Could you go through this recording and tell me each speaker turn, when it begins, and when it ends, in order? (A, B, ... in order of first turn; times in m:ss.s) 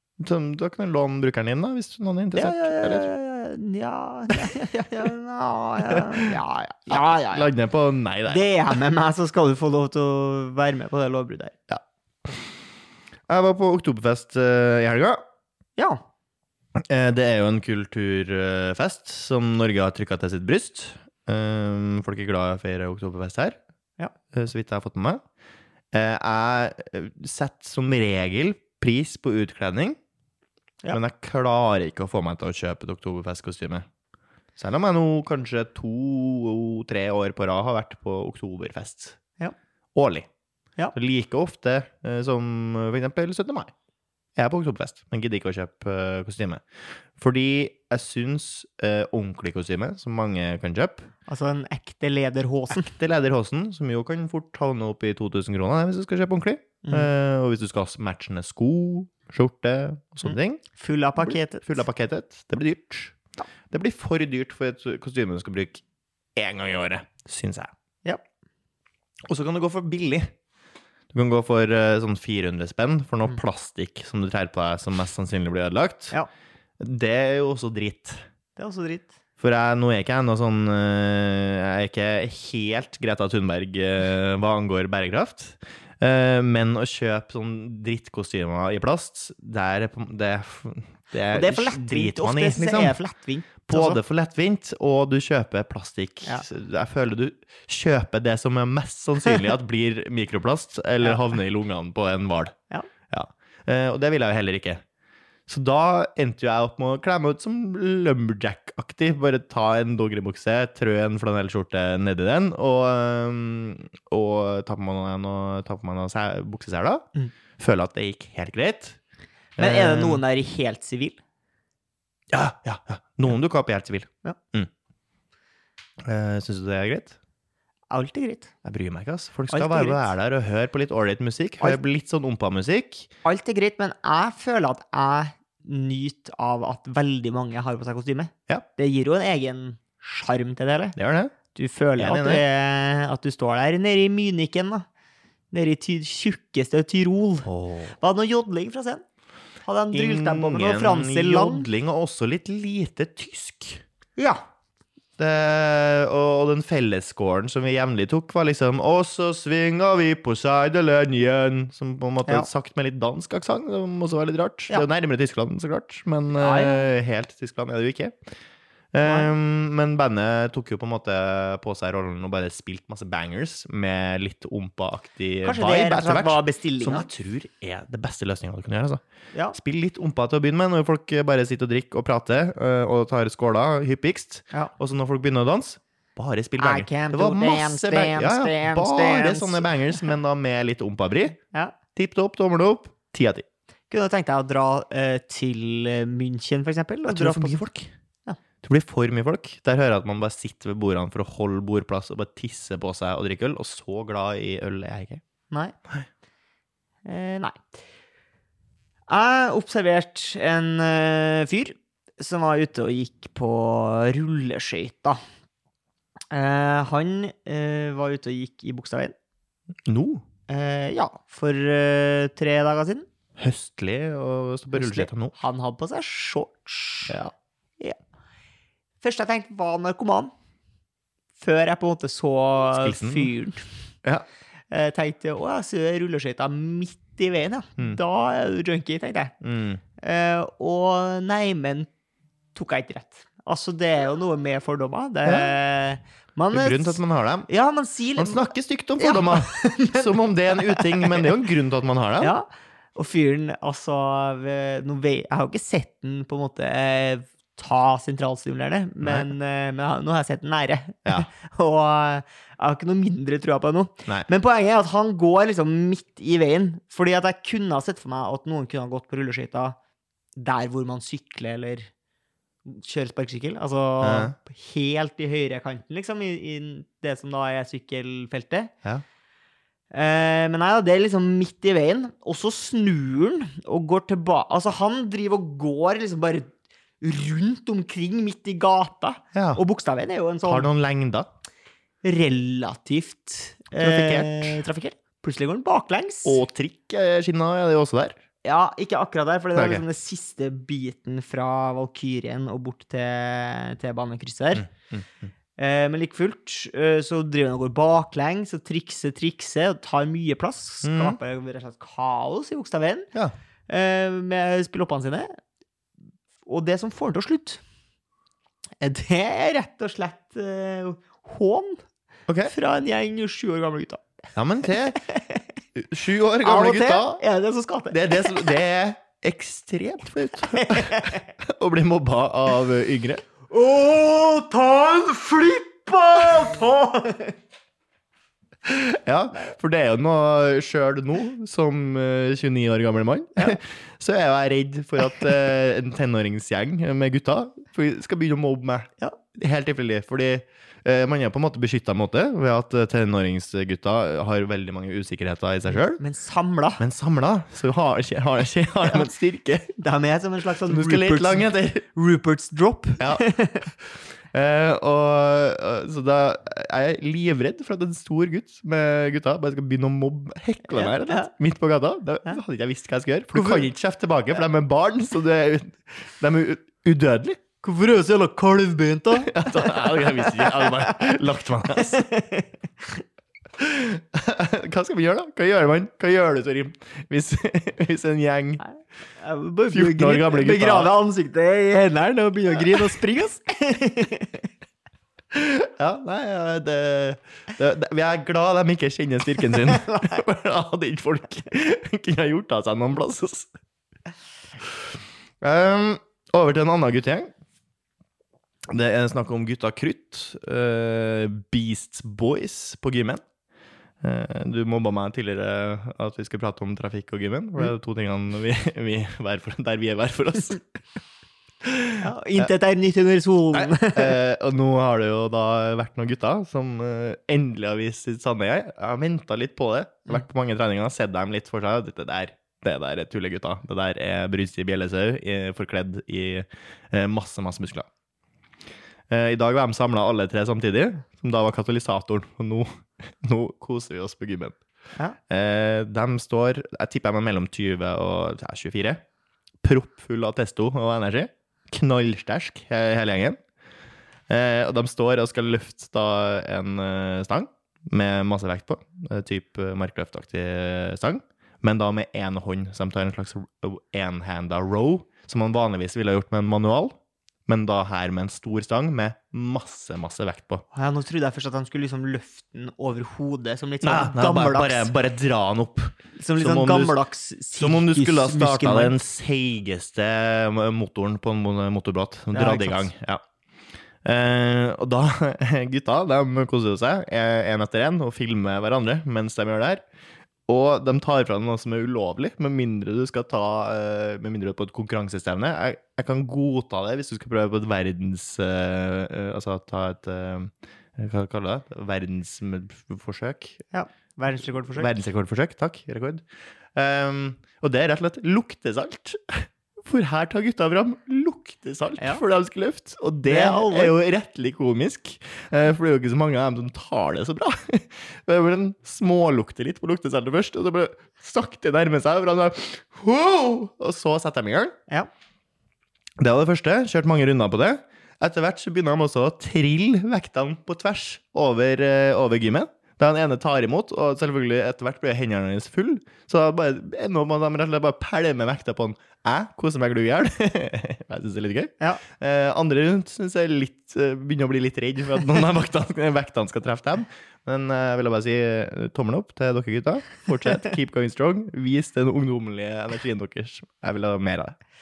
0:00.2-0:03.1 A
0:02.4-0:07.5 B
0:05.9-0:06.4 A
0:06.9-0:08.8 A
0:08.3-0:11.6 B
0:11.7-0:12.5 A
0:13.3-0:15.2 A
0:16.8-0:23.6 A
0:24.3-0:25.2 A
0:25.9-0:30.0 A
0:30.9-0:33.9 A
0:34.6-0:39.2 A
0:39.9-0:40.3 A
0:40.9-0:43.7 A
0:44.4-0:46.6 A
0:47.2-0:51.1 A
0:51.3-0:52.9 B
0:52.8-1:00.6 A
0:56.8-0:57.1 B
1:00.2-1:01.8 B
1:01.2-1:03.2 A
1:03.7-1:05.8 A
1:06.4-1:07.7 A
1:09.3-1:10.3 A
1:11.1-1:16.2 A
1:16.8-1:18.2 A
1:18.6-1:19.1 B
1:19.4-1:33.0 A
1:31.2-1:34.0 B
1:33.7-1:42.5 A
1:43.1-1:44.8 A
1:45.5-1:59.0 A
1:59.6-2:00.2 A
1:59.6-2:01.2 B
2:02.3-2:04.7 A
2:06.0-2:07.2 A
2:07.9-2:08.5 B
2:08.6-2:13.1 A
2:09.5-2:10.1 B
2:13.2-2:20.9 B
2:21.0-2:21.3 A
2:21.6-2:24.9 B
2:22.0-2:22.4 A
2:25.5-2:29.0 B
2:27.4-2:27.9 A
2:29.6-2:31.7 B
2:29.9-2:33.8 A
2:34.2-2:34.4 B
2:35.2-2:48.2 A
2:46.4-2:46.9 B
2:48.9-2:59.0 A
2:55.4-2:57.1 B
2:59.5-3:11.4 A
3:06.6-3:09.7 B
3:11.9-3:13.4 A
3:13.9-3:17.6 B
3:17.1-3:17.9 A
3:18.6-3:25.2 A
3:25.5-3:25.8 B
3:27.1-3:27.6 B
3:29.1-3:35.2 B
3:36.3-3:39.1 B
3:39.9-3:40.2 A
3:40.5-3:43.1 B
3:43.4-3:45.3 A
3:44.7-3:47.3 B
3:49.0-3:50.3 B
3:51.4-3:53.6 B
3:52.7-3:53.3 A
3:54.7-3:59.3 B
3:59.4-3:59.8 A
4:00.0-4:01.9 B
4:02.6-4:08.4 B
4:05.3-4:05.6 A
4:06.5-4:07.5 A
4:08.2-4:12.3 A
4:09.0-4:11.4 B
4:12.2-4:29.8 B
4:19.0-4:19.3 A
4:30.4-4:31.9 B
4:32.6-4:38.7 B
4:34.0-4:34.4 A
4:39.9-4:46.5 B
4:47.0-4:50.7 B
4:49.3-4:49.6 A
4:50.4-4:51.3 A
4:52.0-4:56.4 B
4:53.8-4:54.6 A
4:56.2-4:58.2 A
4:58.4-5:04.7 B
4:59.6-4:59.8 A
5:04.6-5:05.3 A
5:05.6-5:13.1 B
5:10.8-5:11.2 A
5:13.7-5:15.4 B
5:16.4-5:17.6 B
5:18.8-5:21.8 B
5:22.3-5:22.5 A
5:22.5-5:24.0 B
5:24.3-5:25.0 A
5:24.9-5:25.4 B
5:25.8-5:27.2 A
5:26.4-5:28.6 B
5:27.9-5:33.2 A
5:30.5-5:31.3 B
5:33.5-5:37.3 B
5:38.6-5:56.0 A
5:55.7-5:56.8 B
5:56.8-5:59.7 A
5:59.8-6:03.7 B
6:00.7-6:01.8 A
6:03.8-6:17.4 A
6:10.7-6:11.3 B
6:13.3-6:13.7 B
6:17.6-6:21.1 B
6:19.2-6:22.0 A
6:21.8-6:23.0 B
6:23.6-6:28.6 A
6:28.6-6:34.5 B
6:29.7-6:30.9 A
6:32.6-6:32.9 A
6:35.3-6:43.5 A
6:39.6-6:40.2 B
6:45.4-6:47.3 A
6:48.7-6:53.2 A
6:54.0-7:00.7 A
7:01.6-7:02.5 A
7:02.0-7:04.2 B
7:03.5-7:17.9 A
7:19.1-7:24.6 A
7:25.3-7:29.0 A
7:29.6-7:33.4 A
7:34.3-7:46.9 A
7:47.5-7:50.6 A
7:50.7-7:54.9 B
7:53.8-7:57.0 A
7:56.2-7:58.9 B
7:57.6-8:03.2 A
8:02.3-8:02.9 B
8:04.0-8:09.8 A
8:10.5-8:23.6 A
8:23.7-8:24.9 B
8:24.8-8:26.2 A
8:26.8-8:44.7 A
8:33.2-8:34.0 B
8:46.2-9:14.6 A